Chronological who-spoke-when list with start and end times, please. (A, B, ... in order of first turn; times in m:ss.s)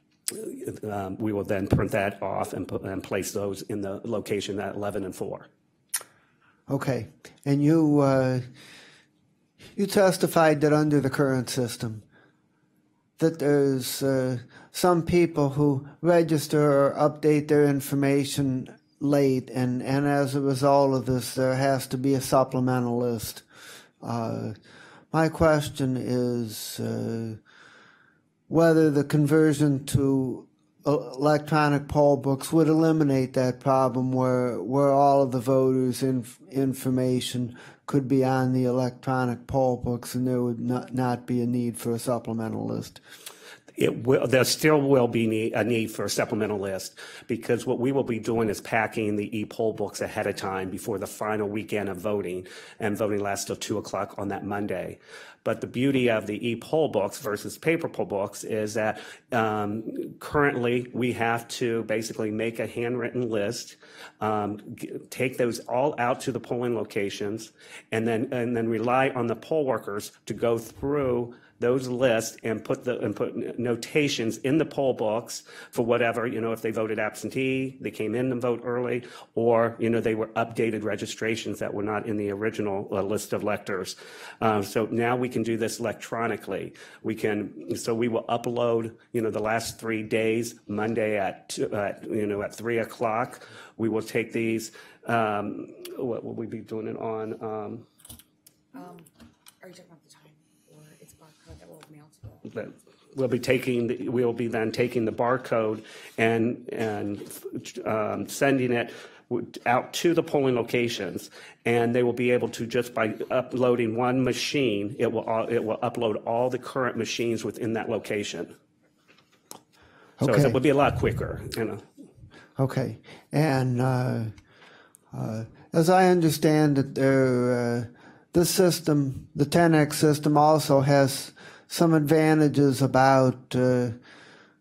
0:00.3-0:05.5 A
0:06.7-0:08.5 B
0:09.8-0:12.0 B
0:13.2-0:23.4 B
0:24.0-0:24.6 B
0:25.1-0:27.4 B
0:28.5-0:43.0 B
0:43.8-1:37.9 A
1:38.7-1:39.1 C
1:39.6-1:42.4 C
1:42.5-1:58.5 A
2:00.2-2:00.6 B
2:00.2-2:01.8 A
2:02.6-2:04.4 B
2:05.1-2:14.0 B